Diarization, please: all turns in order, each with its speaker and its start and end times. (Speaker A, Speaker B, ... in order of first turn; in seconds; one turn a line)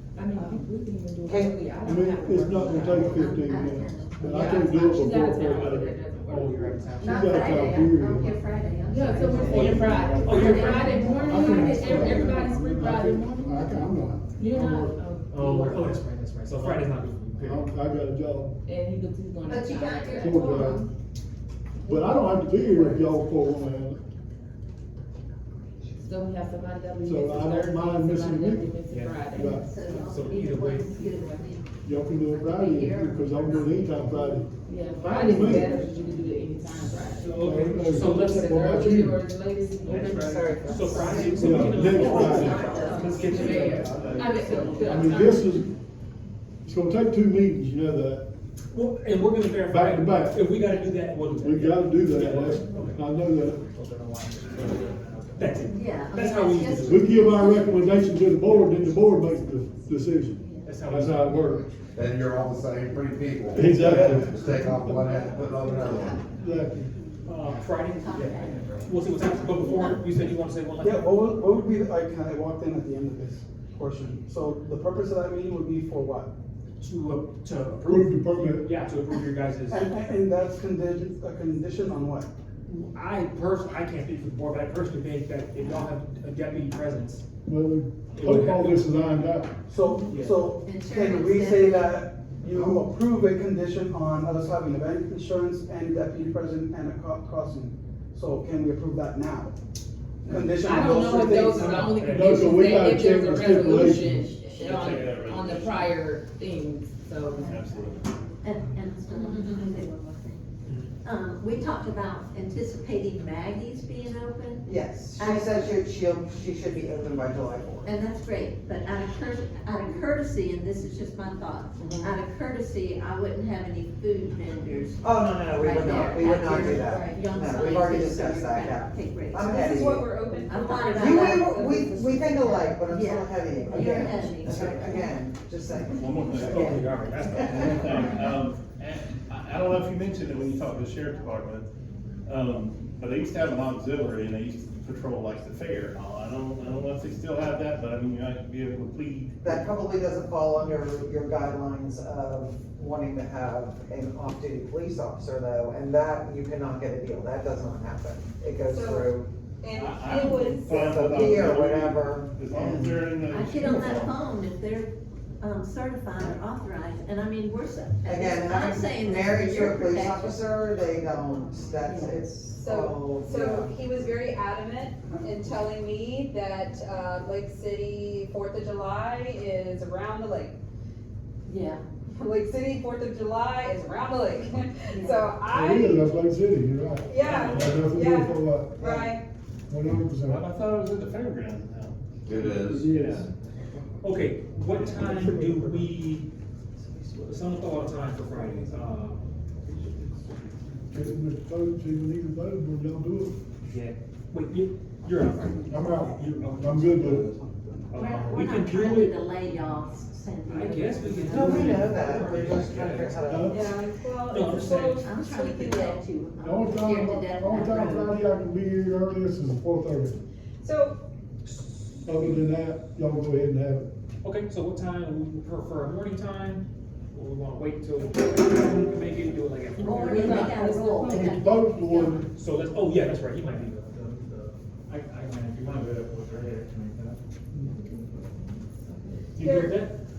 Speaker A: 0.1-3.2
Speaker B: 1.2-1.6
Speaker C: 1.8-6.0
Speaker D: 2.7-5.5
Speaker A: 4.3-7.7
Speaker E: 5.8-7.5
Speaker C: 7.0-8.4
Speaker D: 7.0-12.4
Speaker A: 8.8-13.7
Speaker C: 9.2-15.0
Speaker E: 9.3-11.1
Speaker A: 14.4-16.0
Speaker E: 15.3-17.7
Speaker C: 17.4-18.6
Speaker A: 18.6-20.5
Speaker D: 19.4-20.9
Speaker C: 20.2-20.9
Speaker C: 21.8-24.0
Speaker D: 22.7-23.2
Speaker A: 26.0-31.4
Speaker C: 27.0-28.7
Speaker E: 28.9-29.3
Speaker C: 29.3-29.7
Speaker D: 29.4-31.6
Speaker E: 29.9-30.9
Speaker C: 31.8-35.9
Speaker D: 32.3-33.9
Speaker A: 34.6-45.6
Speaker E: 37.0-38.5
Speaker C: 37.3-39.2
Speaker E: 39.8-45.4
Speaker B: 39.9-44.1
Speaker C: 41.1-42.8
Speaker D: 41.8-43.6
Speaker F: 43.2-43.8
Speaker C: 43.7-44.2
Speaker G: 43.7-44.2
Speaker C: 44.8-45.7
Speaker C: 46.6-48.2
Speaker E: 48.7-53.0
Speaker C: 49.7-50.4
Speaker C: 51.3-53.6
Speaker E: 53.7-57.2
Speaker D: 55.7-57.9
Speaker C: 56.8-61.6
Speaker E: 58.5-58.7
Speaker E: 60.6-61.4
Speaker H: 61.9-66.2
Speaker C: 63.5-64.9
Speaker D: 65.7-66.0
Speaker C: 66.3-66.9
Speaker E: 67.2-71.1
Speaker D: 68.0-68.5
Speaker I: 68.4-68.8
Speaker G: 70.8-76.3
Speaker E: 76.8-79.9
Speaker C: 77.8-78.7
Speaker G: 79.7-82.3
Speaker E: 82.7-87.2
Speaker C: 87.5-89.5
Speaker E: 88.1-88.9
Speaker G: 89.7-99.5
Speaker E: 90.0-90.5
Speaker D: 90.6-92.0
Speaker G: 100.2-102.0
Speaker E: 100.3-103.9
Speaker A: 100.6-107.5
Speaker C: 102.0-104.3
Speaker F: 104.3-105.9
Speaker F: 107.3-108.2
Speaker D: 108.4-110.4
Speaker E: 110.6-110.9
Speaker D: 111.0-115.8
Speaker B: 114.7-117.9
Speaker D: 117.8-129.9
Speaker B: 125.0-130.1
Speaker I: 129.4-132.6
Speaker D: 130.5-131.5
Speaker B: 130.9-138.1
Speaker D: 132.5-135.1
Speaker F: 135.9-141.7
Speaker E: 136.4-138.1
Speaker F: 142.2-149.7
Speaker B: 149.4-159.3
Speaker I: 158.7-160.7
Speaker F: 159.7-164.2
Speaker B: 160.6-163.1
Speaker D: 163.3-170.4
Speaker B: 168.1-173.7
Speaker D: 171.8-172.2
Speaker I: 172.5-180.5
Speaker D: 181.5-181.8
Speaker I: 182.1-186.0
Speaker D: 184.9-185.2
Speaker C: 185.5-189.0
Speaker I: 187.1-189.2
Speaker F: 187.2-187.9
Speaker C: 189.7-190.4
Speaker F: 190.2-192.0
Speaker H: 192.2-192.8
Speaker C: 192.3-193.3
Speaker E: 192.9-193.2
Speaker F: 192.9-193.2
Speaker E: 194.0-196.3
Speaker G: 194.7-195.9
Speaker E: 197.2-199.2
Speaker G: 198.2-198.9
Speaker G: 199.7-200.3
Speaker C: 200.9-203.4
Speaker E: 203.7-207.2
Speaker C: 205.7-207.3
Speaker G: 205.9-208.1
Speaker E: 207.9-209.8
Speaker D: 207.9-212.0
Speaker E: 210.4-213.5
Speaker B: 211.3-213.6
Speaker C: 213.2-213.6
Speaker I: 213.5-216.0
Speaker E: 214.2-215.0
Speaker D: 215.0-218.2
Speaker C: 216.4-220.2
Speaker I: 220.6-221.0
Speaker E: 221.4-222.4
Speaker C: 222.1-223.9
Speaker E: 224.2-230.7
Speaker D: 229.8-232.2
Speaker A: 230.0-231.4
Speaker C: 230.1-232.2
Speaker E: 232.3-237.2
Speaker A: 237.7-239.4
Speaker E: 239.3-239.9
Speaker I: 239.4-239.8